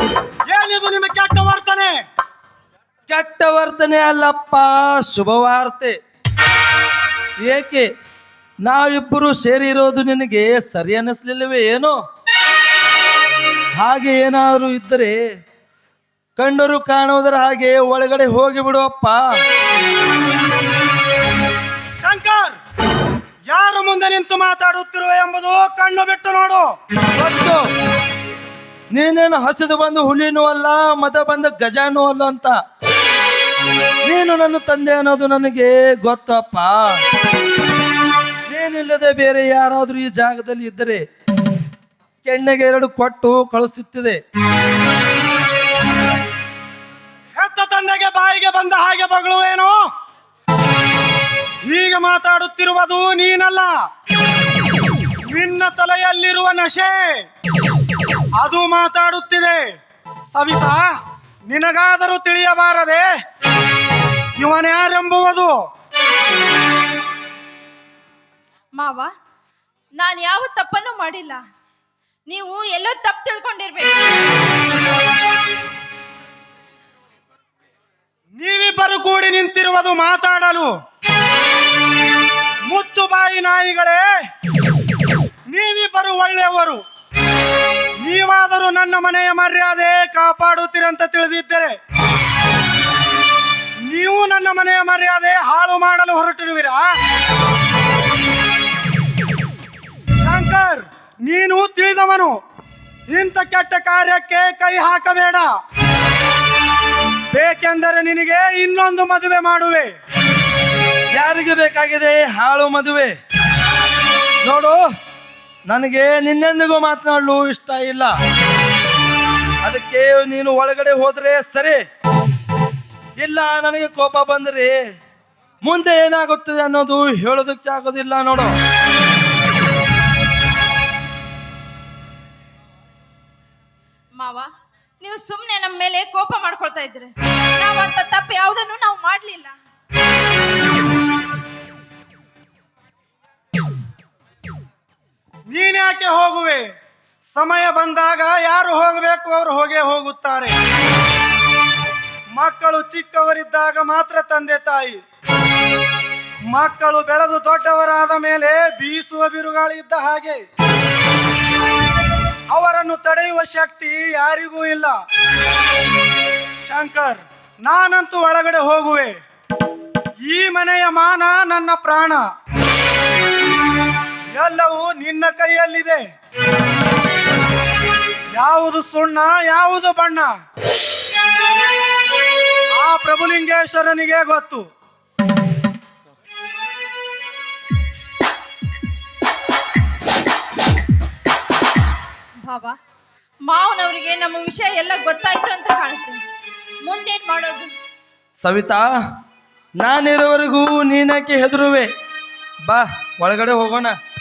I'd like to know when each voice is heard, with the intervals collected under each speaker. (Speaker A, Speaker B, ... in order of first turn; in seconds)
Speaker A: 0.5-1.9, 22.0-22.6, 23.5-26.7, 47.3-49.8, 51.6-53.8, 55.3-57.2, 58.4-59.8, 60.3-60.9, 61.5-63.1, 64.4-65.5, 78.3-80.7, 82.7-84.1, 85.5-86.8, 88.0-91.7, 93.9-96.9, 100.2-102.3, 103.1-105.5, 107.3-109.9, 145.5-146.6, 147.3-150.5, 152.3-155.0, 156.5-160.4, 162.5-164.9, 166.6-169.1, 170.3-172.2, 174.4-176.0, 178.3-180.3, 182.8-184.6
Speaker B: 3.1-6.0, 7.4-7.9, 8.6-12.0, 13.8-15.2, 16.4-19.4, 27.1-27.6, 28.9-32.5, 34.0-37.0, 38.5-41.0, 42.2-44.2, 111.1-113.1, 114.4-114.8, 115.7-118.1, 119.6-121.8, 123.2-124.8, 125.6-128.5, 198.4-198.9, 199.8-201.9, 202.7-203.9
Speaker C: 68.7-69.1, 70.0-71.4, 72.3-74.0, 134.2-134.5, 135.0-139.6, 192.4-192.7, 193.4-196.2, 196.8-197.7